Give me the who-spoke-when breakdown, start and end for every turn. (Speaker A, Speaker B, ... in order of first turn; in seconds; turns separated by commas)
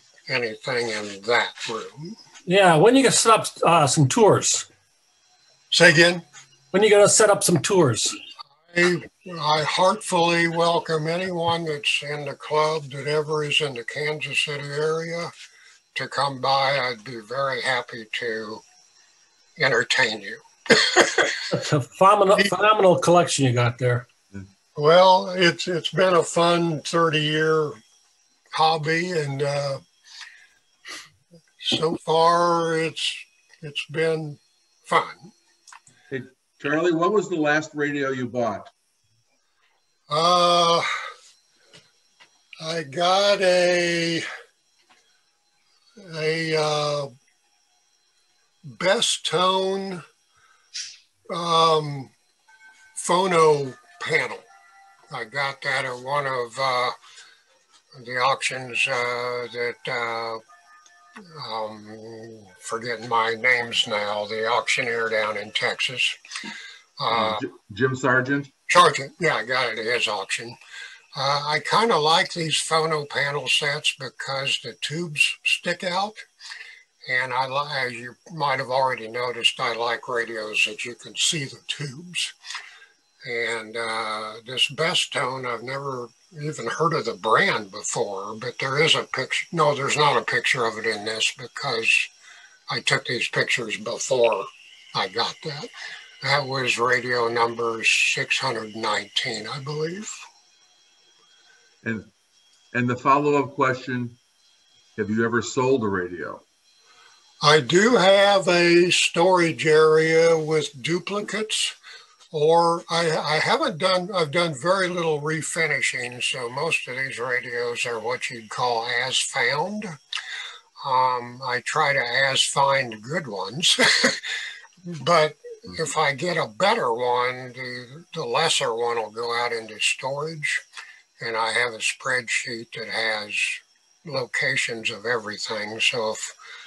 Speaker A: 0.3-2.2, Speaker B: 2.5-4.7, Speaker A: 5.7-6.2, Speaker B: 6.7-8.2, Speaker A: 8.7-15.3, Speaker A: 15.9-18.6, Speaker A: 19.6-21.4, Speaker B: 21.5-24.1, Speaker A: 24.8-27.8, Speaker A: 28.5-29.8, Speaker A: 31.6-35.3, Speaker C: 36.1-38.7, Speaker A: 40.1-40.9, Speaker A: 42.6-44.2, Speaker A: 46.0-47.1, Speaker A: 48.6-50.0, Speaker A: 51.3-52.1, Speaker A: 53.0-54.5, Speaker A: 55.1-57.0, Speaker A: 58.0-60.4, Speaker A: 61.3-66.2, Speaker A: 67.0-67.4, Speaker C: 67.1-68.5, Speaker A: 68.7-70.6, Speaker A: 71.2-76.3, Speaker A: 77.0-82.3, Speaker A: 83.2-92.1, Speaker A: 92.7-95.7, Speaker A: 96.2-100.1, Speaker C: 101.8-102.1, Speaker C: 102.7-104.2, Speaker C: 105.0-106.4, Speaker A: 107.4-111.8, Speaker A: 112.3-119.9, Speaker A: 120.8-124.3, Speaker A: 124.9-130.6, Speaker A: 131.2-136.3